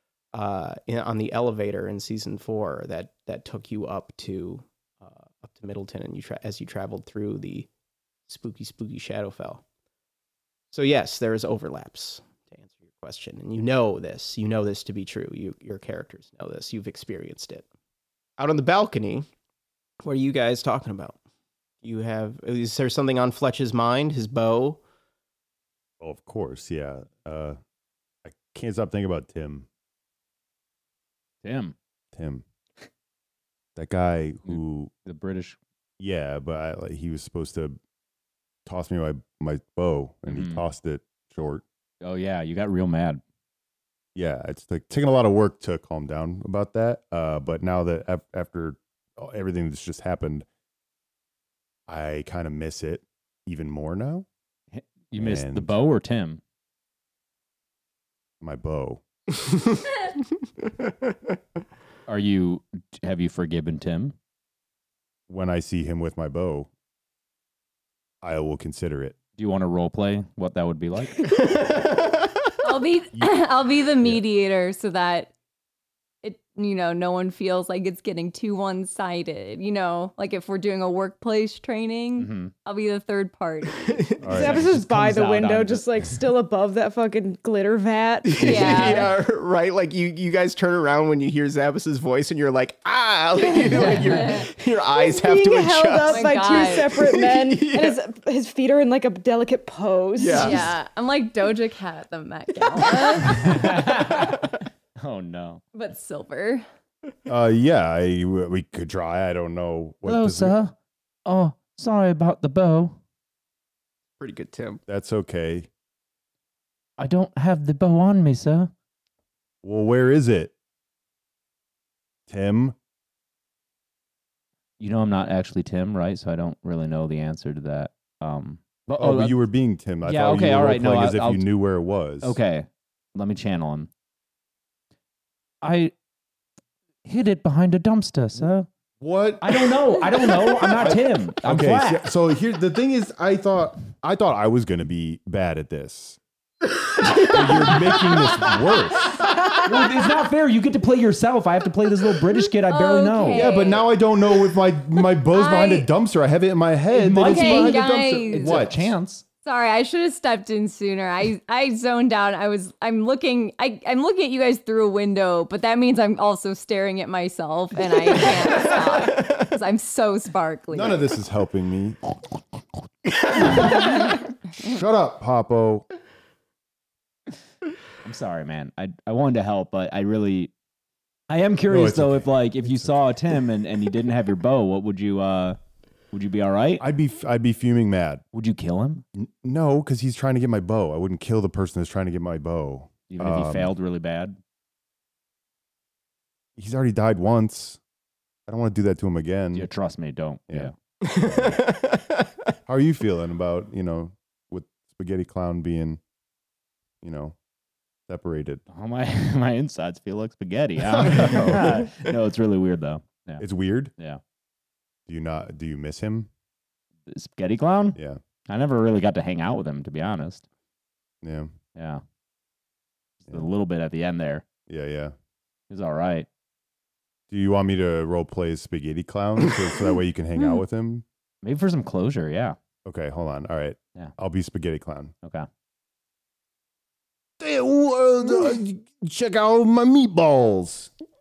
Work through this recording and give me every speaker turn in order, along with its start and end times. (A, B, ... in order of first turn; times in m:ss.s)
0:00.3-0:07.7 A
0:08.3-0:09.6 A
0:10.7-0:17.7 A
0:18.4-0:19.3 A
0:20.0-0:21.2 A
0:21.8-0:24.8 A
0:26.0-0:27.6 B
0:28.2-0:29.7 B
0:31.4-0:31.8 C
0:32.1-0:32.4 B
0:33.8-0:34.9 B
0:34.5-0:35.6 C
0:36.0-0:37.8 B
0:38.7-0:41.6 B
0:40.3-0:40.6 C
0:42.0-0:43.2 C
0:44.2-0:50.5 B
0:51.9-0:54.3 B
0:54.7-0:56.4 C
0:55.2-0:55.7 B
0:58.4-0:59.0 B
1:02.1-1:04.2 C
1:05.3-1:06.7 B
1:08.2-1:09.2 B
1:09.4-1:11.3 C
1:11.2-1:12.6 A
1:12.6-1:15.3 D
1:16.2-1:24.2 D
1:22.2-1:22.5 C
1:23.8-1:24.3 A
1:24.2-1:25.1 B
1:24.3-1:29.0 E
1:24.3-1:25.8 C
1:28.3-1:38.0 A
1:28.4-1:29.1 D
1:33.7-1:34.5 D
1:34.9-1:40.6 E
1:36.1-1:36.9 D
1:40.2-1:40.8 A
1:40.3-1:43.8 D
1:42.7-1:43.4 A
1:43.2-1:45.6 C
1:45.7-1:46.6 D
1:47.3-1:50.6 B
1:50.0-1:50.7 C
1:51.3-1:53.0 C
1:54.2-1:54.8 A
1:54.9-1:55.7 B
1:57.0-1:58.7 C
1:59.6-2:00.5 B
2:02.3-2:02.8 B
2:04.8-2:09.4 C
2:09.0-2:12.4 B
2:10.0-2:11.4 C
2:12.2-2:13.9 C
2:15.6-2:15.9 C
2:17.0-2:18.7 C
2:19.0-2:26.2 B
2:19.4-2:22.1 C
2:27.3-2:29.2 B
2:29.5-2:33.5 C
2:32.6-2:33.9 D
2:33.3-2:38.9 B
2:35.3-2:35.9 D
2:36.9-2:39.2 C
2:37.2-2:38.6 D
2:39.4-2:51.1 D
2:48.5-2:49.4 A
2:50.7-2:52.0 B
2:53.2-2:53.9 A
2:54.6-2:55.9 B
2:58.0-3:00.5 C
3:01.3-3:05.6 C
3:01.7-3:03.2 B
3:06.1-3:06.8 C
3:06.8-3:08.2 B
3:08.3-3:09.0 C
3:09.2-3:13.7 B
3:13.1-3:14.4 C
3:16.6-3:17.8 B
3:18.5-3:19.7 B
3:19.5-3:20.7 C
3:20.5-3:21.6 B
3:21.0-3:22.3 A
3:22.7-3:26.0 B
3:27.0-3:27.4 B
3:28.1-3:28.6 B
3:28.7-3:33.4 C
3:30.8-3:31.9 B
3:33.4-3:33.9 B
3:35.1-3:36.3 B
3:37.1-3:40.4 C
3:38.0-3:38.2 B
3:41.2-3:41.5 B
3:41.8-3:42.0 C
3:43.2-3:44.4 C
3:44.7-3:45.1 B
3:45.7-3:46.3 C
3:47.3-3:51.0 B
3:51.4-3:52.6 C
3:52.9-3:55.1 B
3:57.4-4:00.9 B